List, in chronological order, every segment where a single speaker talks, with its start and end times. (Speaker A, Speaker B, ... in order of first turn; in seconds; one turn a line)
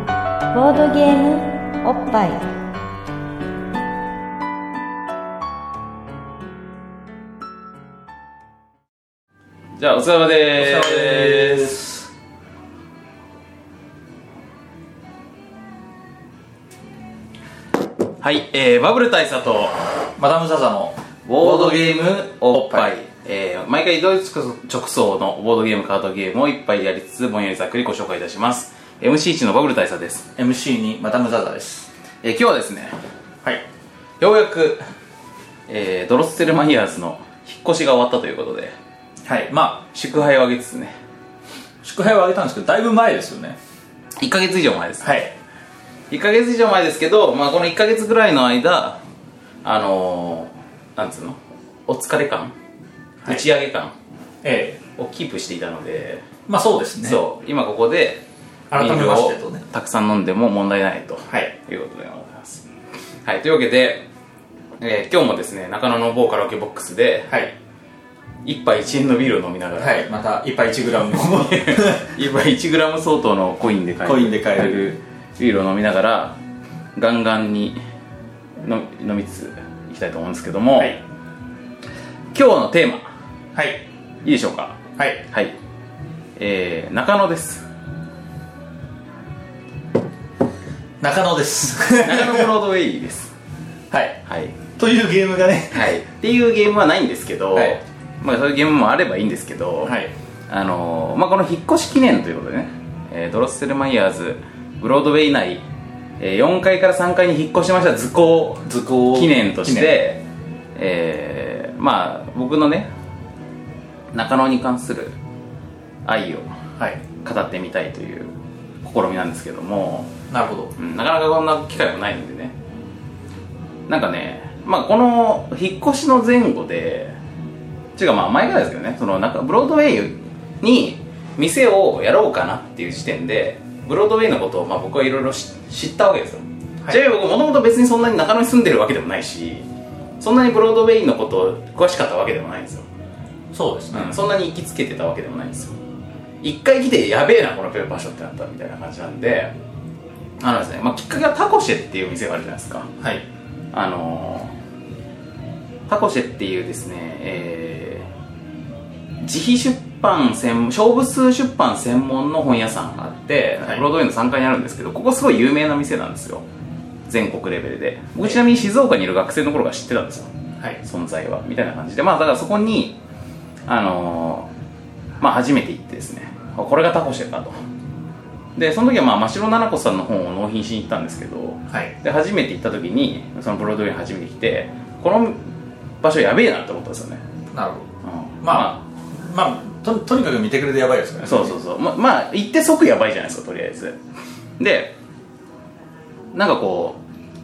Speaker A: 0.5-2.5
Speaker B: 9.8-11.8
Speaker C: 10.6-12.1
Speaker B: 18.2-19.8
Speaker C: 20.2-22.9
Speaker B: 21.2-30.3
Speaker C: 30.4-31.9
Speaker B: 32.2-33.0
Speaker B: 34.2-34.8
Speaker B: 35.7-38.8
Speaker C: 39.2-39.9
Speaker B: 39.9-41.0
Speaker C: 41.8-43.6
Speaker B: 44.2-45.3
Speaker C: 45.0-45.3
Speaker B: 46.1-49.0
Speaker B: 49.6-52.5
Speaker B: 53.2-54.0
Speaker C: 54.4-54.8
Speaker B: 55.0-56.3
Speaker C: 56.5-57.2
Speaker B: 57.0-58.2
Speaker C: 58.7-59.6
Speaker B: 58.8-62.7
Speaker B: 63.2-64.1
Speaker B: 64.8-67.4
Speaker C: 67.3-67.5
Speaker B: 68.4-70.1
Speaker C: 69.8-72.2
Speaker B: 71.3-76.4
Speaker C: 74.0-75.0
Speaker B: 77.0-77.8
Speaker B: 78.6-81.0
Speaker B: 82.3-83.1
Speaker C: 83.5-83.8
Speaker B: 84.2-85.6
Speaker C: 85.0-85.2
Speaker B: 86.4-87.7
Speaker C: 91.0-92.5
Speaker B: 92.0-93.3
Speaker C: 93.9-94.2
Speaker B: 94.3-94.6
Speaker C: 94.8-95.9
Speaker B: 95.7-100.0
Speaker C: 97.5-97.8
Speaker C: 99.8-100.1
Speaker B: 100.5-105.7
Speaker B: 106.2-110.2
Speaker C: 108.6-110.0
Speaker B: 110.8-112.9
Speaker B: 114.1-115.2
Speaker B: 116.0-116.5
Speaker B: 117.2-120.1
Speaker C: 120.3-120.7
Speaker B: 120.8-122.5
Speaker B: 123.9-127.2
Speaker B: 128.0-139.7
Speaker B: 140.2-142.9
Speaker C: 143.5-144.2
Speaker B: 143.9-145.8
Speaker B: 146.4-149.5
Speaker B: 150.4-152.9
Speaker C: 153.0-153.3
Speaker B: 153.7-154.6
Speaker B: 155.9-158.1
Speaker B: 159.2-166.4
Speaker B: 167.1-170.3
Speaker B: 170.8-173.0
Speaker B: 173.7-174.5
Speaker B: 175.2-177.6
Speaker B: 178.6-185.4
Speaker B: 186.0-187.2
Speaker C: 187.5-187.9
Speaker B: 188.0-188.8
Speaker C: 188.4-191.6
Speaker B: 191.2-194.0
Speaker B: 194.6-194.9
Speaker B: 196.3-197.0